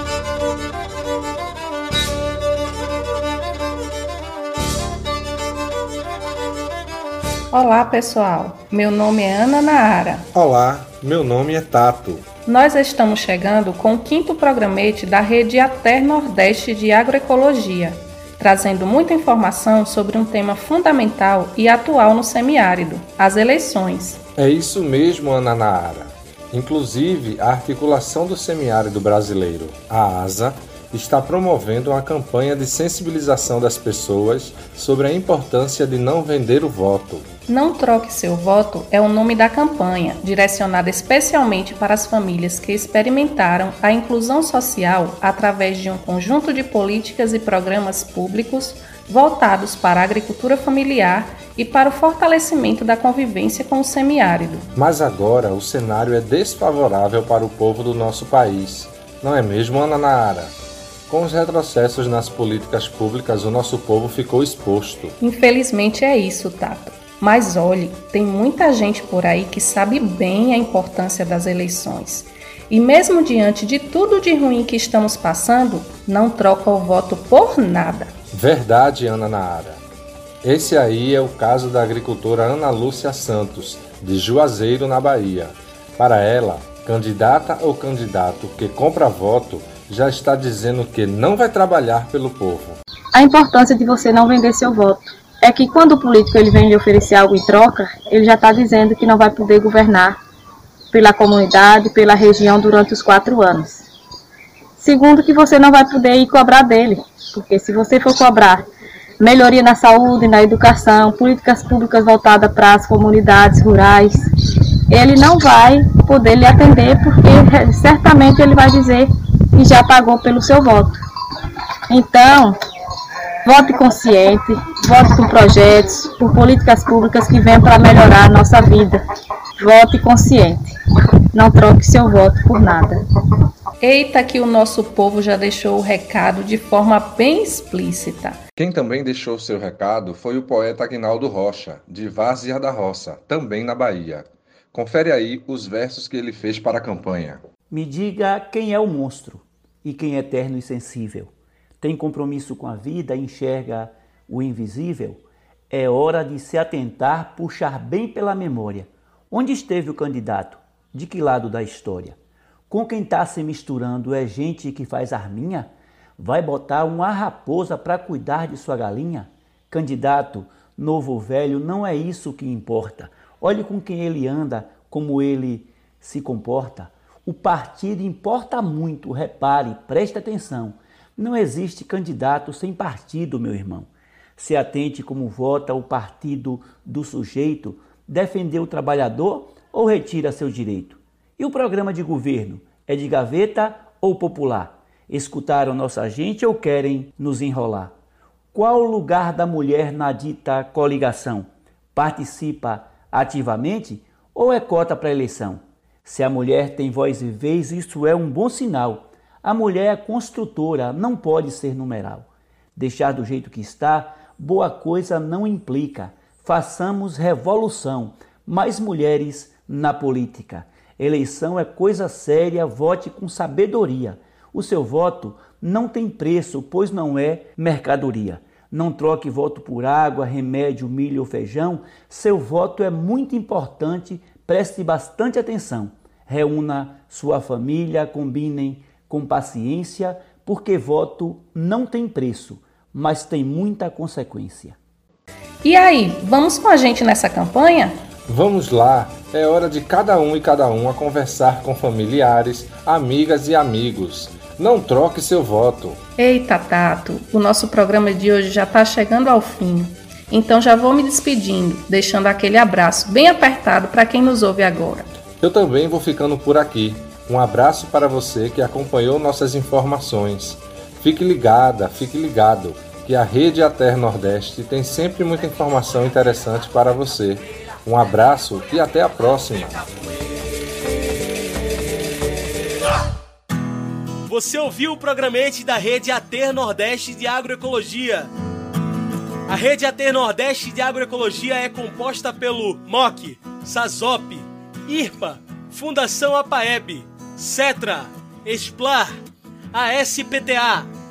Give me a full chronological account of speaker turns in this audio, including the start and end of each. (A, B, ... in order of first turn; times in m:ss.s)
0:07.5-0:10.3 A
0:10.3-0:12.2 B
0:12.4-0:24.2 A
0:24.4-0:37.3 B
0:37.5-0:54.7 A
0:54.7-1:00.5 B
1:01.1-1:05.1 B
1:05.2-1:18.1 A
1:18.3-1:19.8 B
1:20.4-1:32.8 B
1:33.1-1:40.2 C
1:40.9-1:43.8 C
1:44.8-1:48.6 C
1:49.2-1:54.2 C
1:54.9-2:01.0 C
2:01.9-2:02.5 C
2:03.4-2:09.0 C
2:09.6-2:10.7 C
2:11.3-2:13.0 C
2:13.8-2:18.4 A
2:18.6-2:27.4 B
2:27.7-2:42.2 D
2:42.7-3:17.9 D
3:18.5-4:04.8 D
4:05.6-4:08.0 A
4:08.3-4:16.0 B
4:16.2-4:25.1 A
4:25.4-4:39.8 B
4:44.2-4:48.3 E
4:49.5-4:59.2 E
4:59.7-5:00.9 E